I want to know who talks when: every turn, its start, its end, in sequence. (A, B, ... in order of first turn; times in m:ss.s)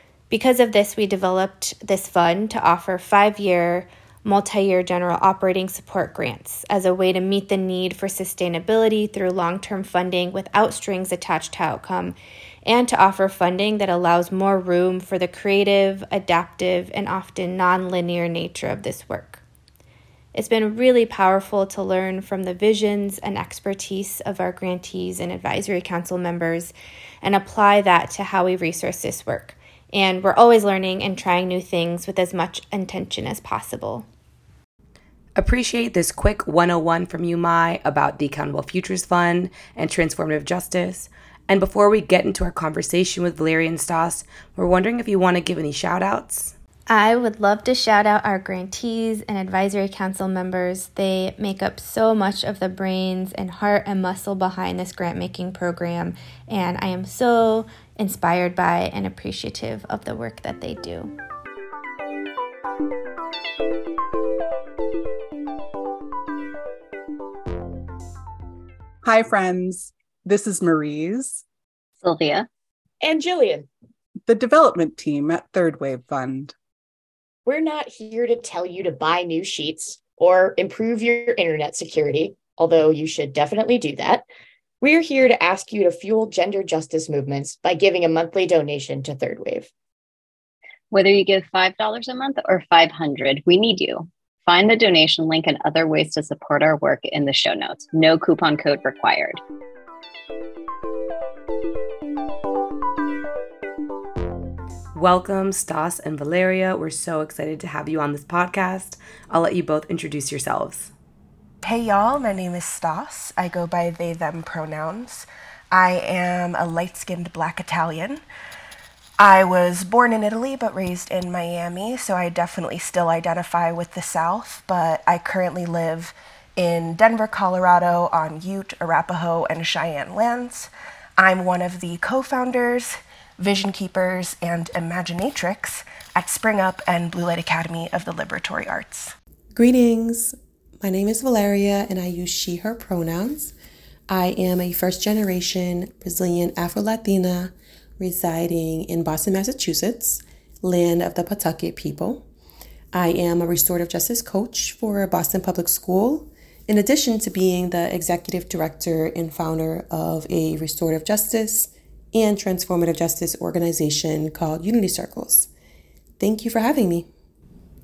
0:00.3-0:19.4 A
0:20.3-0:34.1 A
0:35.4-0:46.6 B
0:46.9-1:01.1 A
1:09.0-1:11.4 C
1:12.0-1:12.5 D
1:13.0-1:13.7 E
1:14.2-1:16.5 C
1:17.5-1:24.2 E
1:24.8-1:29.7 E
1:30.9-1:39.4 D
1:45.0-1:50.9 B
1:51.6-1:58.2 F
1:59.2-2:19.1 F
2:19.6-2:23.5 G
2:24.1-2:32.2 G
2:32.9-2:45.5 G
2:46.2-2:47.1 G